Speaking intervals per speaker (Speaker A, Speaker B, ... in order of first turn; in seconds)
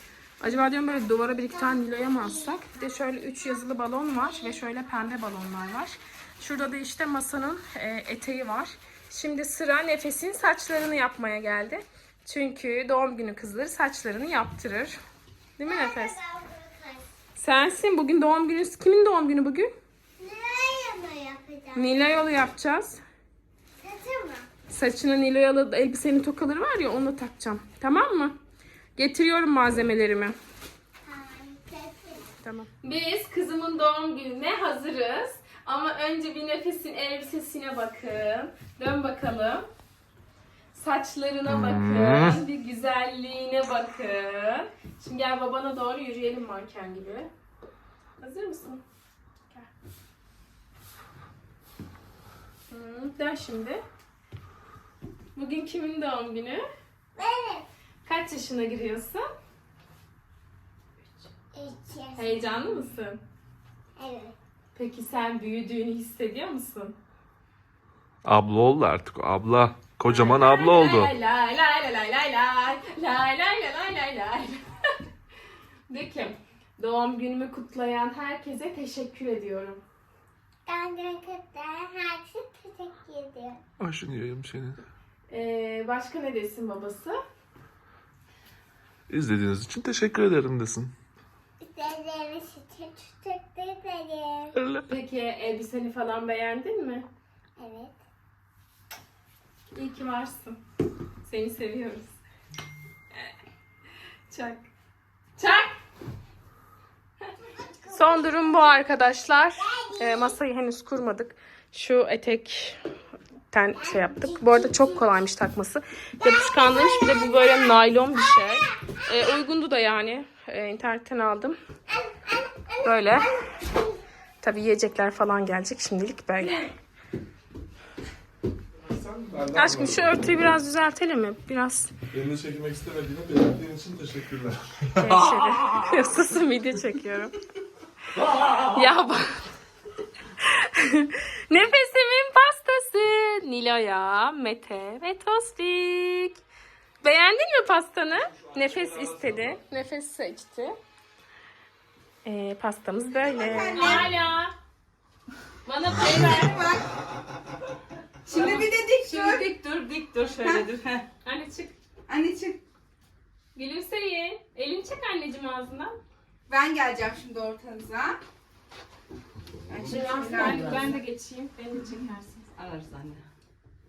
Speaker A: 0.4-15.0, 15.6-16.2, 17.4-19.7, 21.7-23.0, 24.7-28.3, 28.9-30.3, 32.4-39.6, 40.7-47.3, 48.2-48.8, 52.7-53.8, 55.4-56.6, 58.0-59.2, 62.1-63.2, 64.7-67.0, 70.0-74.6, 75.9-79.8, 85.3-87.2, 94.8-97.0, 99.7-100.6, 101.2-102.2, 104.3-104.6, 105.4-105.8, 107.8-112.8, 113.5-121.5, 122.8-123.3, 124.4-126.7, 129.5-131.9, 135.0-137.3, 138.4-139.4, 140.4-146.4, 147.0-150.7, 152.2-154.5, 155.6-156.7, 161.2-161.7, 163.5-166.0, 169.8-172.5
Speaker B: 15.7-17.0, 20.2-21.9, 23.8-24.5, 31.0-32.2, 57.1-57.6, 61.5-62.4, 64.0-64.3, 80.7-83.6, 91.6-94.6, 97.6-98.0, 107.6-108.2
Speaker C: 41.5-42.4, 68.2-71.1, 83.8-84.8, 89.1-90.9, 128.8-130.3, 132.1-136.0, 148.6-149.3
Speaker D: 153.2-154.1, 156.0-156.9, 158.2-159.5, 160.4-161.0, 162.1-162.6, 166.5-168.2, 169.7-170.7
Speaker E: 158.3-160.8, 169.8-170.9, 172.6-173.2